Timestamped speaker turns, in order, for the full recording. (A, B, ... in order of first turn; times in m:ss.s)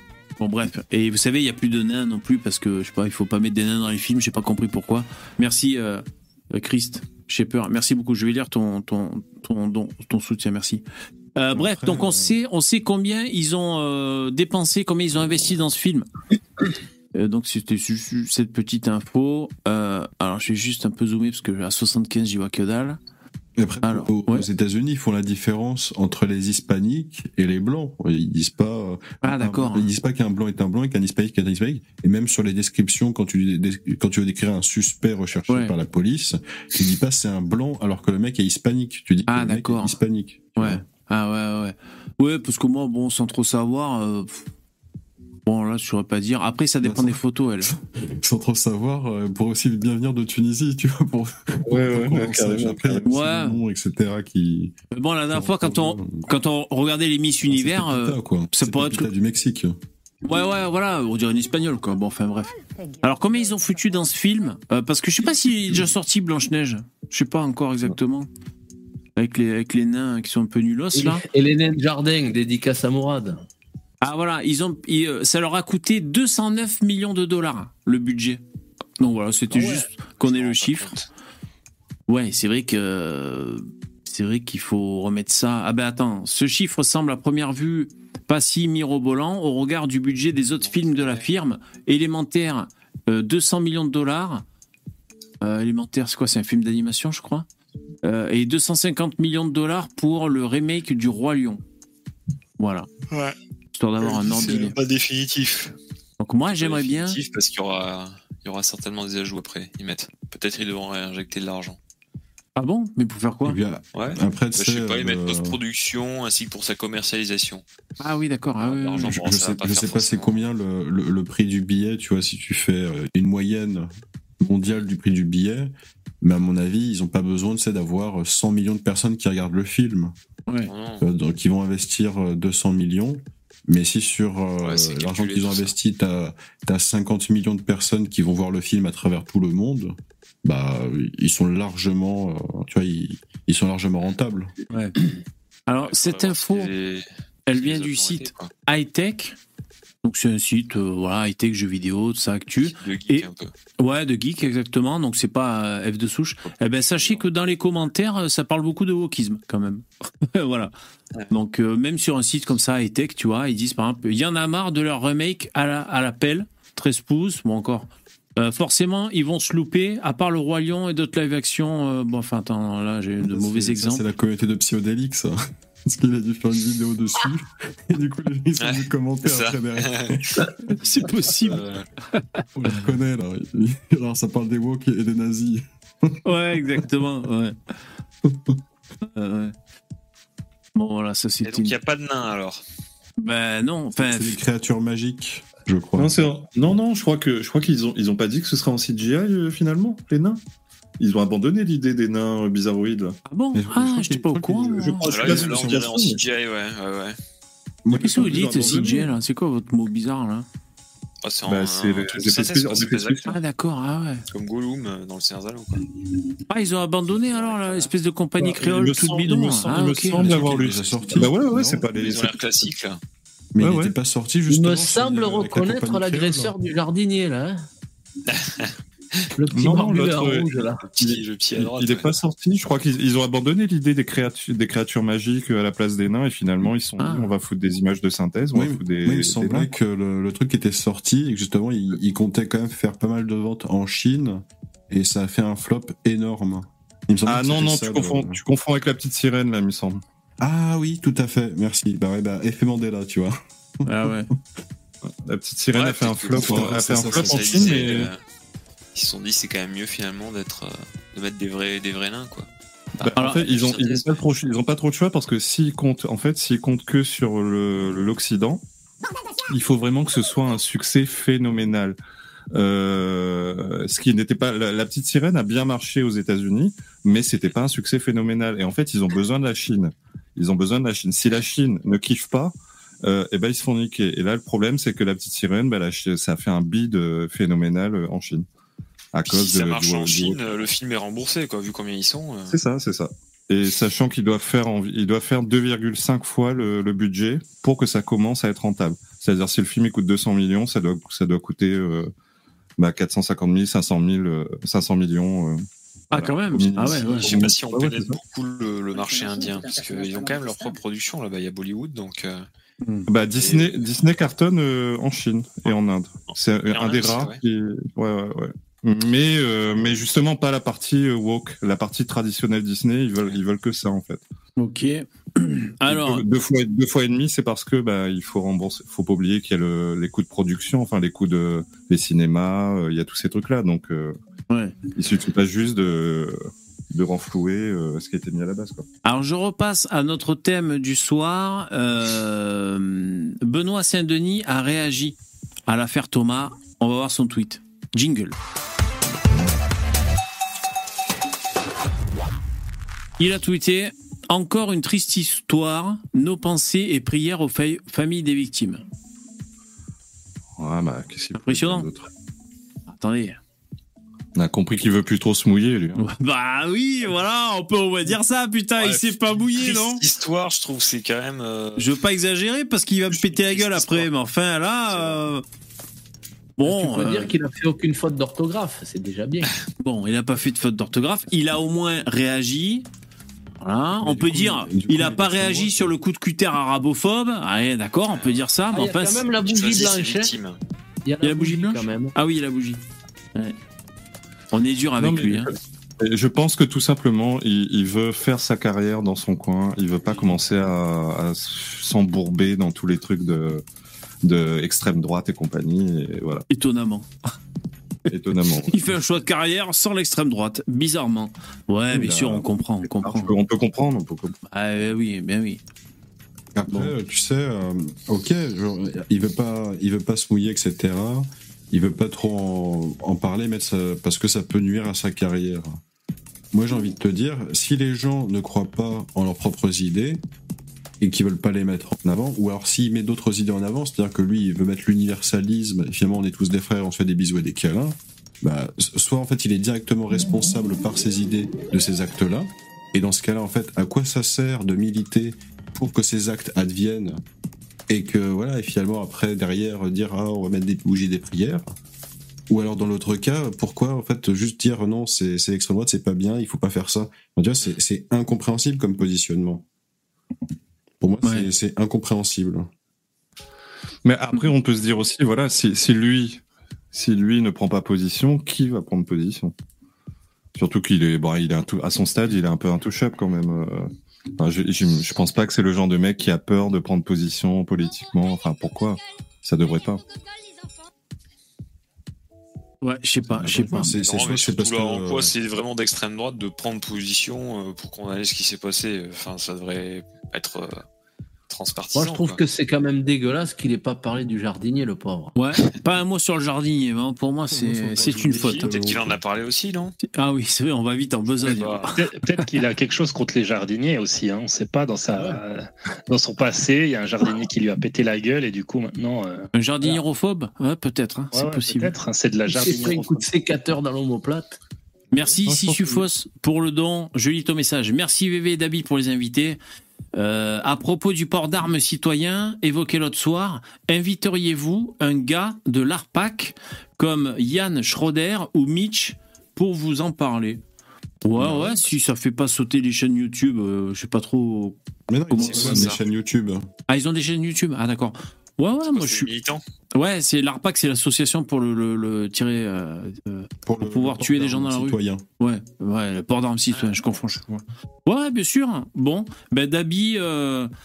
0:00.4-0:10.8 A
0:11.4-0:16.1 A
0:11.5-0:12.3 B
0:17.1-0:23.0 A
0:23.6-0:40.8 B
0:23.8-0:24.5 A
0:29.2-0:29.9 A
0:35.5-0:35.8 A
0:39.3-0:39.9 A
0:40.6-0:44.5 A
0:45.5-0:47.7 A
0:46.8-0:54.8 B
0:51.7-0:53.0 C
0:53.0-0:53.6 A
0:54.9-0:59.1 A
0:55.3-0:56.3 B
0:57.5-0:59.8 B
1:00.2-1:08.3 A
1:09.2-1:11.2 A
1:11.0-1:13.4 D
1:14.0-1:18.4 A
1:19.0-1:21.0 A
1:19.6-1:21.1 E
1:22.1-1:34.4 A
1:30.6-1:31.3 E
1:35.4-1:37.5 A
1:38.0-1:41.6 A
1:42.6-1:42.9 A
1:43.7-1:44.8 A
1:44.0-1:45.7 E
1:46.2-1:47.2 A
1:46.5-1:51.8 E
1:52.6-1:53.6 A
1:53.4-1:55.6 B
1:53.9-1:57.6 E
1:58.0-1:59.2 A
1:58.6-2:00.4 E
1:59.0-2:03.9 B
2:04.4-2:10.1 B
2:10.6-2:11.0 E
2:11.0-2:24.5 B
2:14.6-2:15.7 E
2:25.7-2:26.7 A
2:25.8-2:28.5 E
2:27.5-2:29.4 A
2:30.0-2:33.3 A
2:32.6-2:33.5 E
2:33.8-2:40.7 A
2:36.4-2:37.2 E
2:41.3-2:54.1 A
2:53.2-3:00.5 B
2:58.6-3:00.1 E
3:00.7-3:01.6 A
3:00.9-3:01.9 E
3:02.6-3:06.2 B
3:06.2-3:07.6 A
3:08.3-3:08.6 B
3:09.2-3:09.5 A
3:10.8-3:11.8 A
3:11.4-3:12.6 E
3:13.2-3:14.4 A
3:14.0-3:16.3 B
3:16.0-3:20.4 C
3:21.0-3:23.2 C
3:23.3-3:25.2 A
3:23.5-3:25.9 B
3:24.7-3:26.2 C
3:25.0-3:27.2 E
3:27.8-3:29.0 B
3:27.9-3:29.1 C
3:27.9-3:30.5 A
3:31.2-3:33.3 E
3:31.5-3:33.4 C
3:33.3-3:34.2 A
3:34.3-3:35.8 E
3:36.5-3:40.3 A
3:37.2-3:37.9 E
3:38.4-3:42.8 C
3:40.2-3:41.8 B
3:41.9-3:43.0 E
3:43.6-3:46.6 B
3:43.6-3:43.9 C
3:44.5-3:47.6 D
3:48.3-3:49.3 E
3:49.4-3:50.8 D
3:49.5-3:59.7 C
3:50.9-3:52.2 E
3:57.0-3:57.3 A
3:58.6-4:08.4 B
4:07.3-4:10.0 C
4:10.4-4:14.1 B
4:13.9-4:14.3 A
4:15.3-4:18.1 C
4:15.7-4:18.2 E
4:16.4-4:18.0 B
4:19.0-4:22.5 E
4:23.0-4:28.6 C
4:23.2-4:23.4 A
4:23.2-4:24.2 E
4:29.5-4:32.0 C
4:32.5-4:48.5 C
4:49.1-4:50.6 C
4:49.3-4:52.6 E
4:52.5-5:02.1 C
5:02.8-5:08.2 C
5:06.1-5:07.3 A
5:06.9-5:12.5 E
5:12.8-5:13.1 A
5:13.1-5:24.2 C
5:13.3-5:13.9 E
5:16.3-5:17.4 E
5:24.6-5:26.2 A
5:25.9-5:34.2 C
5:35.0-5:36.4 C
5:36.9-5:38.8 C
5:39.0-5:48.4 A
5:53.2-5:58.8 A
6:00.6-6:02.1 C
6:01.4-6:01.9 A
6:02.9-6:03.4 A
6:04.4-6:06.0 C
6:06.0-6:10.0 A
6:08.8-6:11.9 E
6:11.8-6:15.4 A
6:13.1-6:14.1 E
6:14.9-6:15.2 E
6:16.6-6:17.3 A
6:16.6-6:19.6 D
6:19.8-6:22.9 A
6:23.6-6:29.2 A
6:24.0-6:25.9 B
6:28.1-6:28.4 E
6:28.7-6:30.3 D
6:29.4-6:30.6 E
6:31.0-6:32.1 D
6:31.2-6:32.8 A
6:34.5-6:35.5 A
6:35.0-6:43.6 C
6:44.2-6:46.5 C
6:46.5-6:47.1 A
6:48.1-6:48.8 C
6:48.7-6:53.3 A
6:51.9-6:54.4 C
6:54.5-6:55.6 A
6:56.6-7:05.8 B
6:56.7-6:56.9 A
7:06.5-7:10.2 B
7:11.0-7:27.2 B
7:27.9-7:31.7 B
7:32.5-7:39.6 B
7:41.0-7:42.7 B
7:44.0-7:46.4 C
7:46.9-7:49.5 C
7:50.6-8:00.0 C
8:02.8-8:03.9 A
8:03.4-8:05.3 B
8:03.9-8:10.8 E
8:11.5-8:12.4 E
8:11.9-8:15.3 D
8:15.4-8:18.8 A
8:17.5-8:19.2 B
8:18.0-8:20.0 E
8:20.0-8:22.0 A
8:21.4-8:21.9 E
8:22.0-8:29.5 F
8:29.5-8:31.9 A
8:31.3-8:33.2 F
8:32.5-8:34.6 D
8:35.1-8:39.6 A
8:35.5-8:36.0 C
8:40.1-8:50.6 A
8:51.2-8:54.8 A
8:51.4-8:51.8 B
8:55.1-8:56.7 B
8:55.3-8:56.0 A
8:56.9-8:59.3 A
8:58.8-8:59.6 E
8:59.9-9:10.7 A
9:03.7-9:05.2 B
9:06.7-9:07.4 E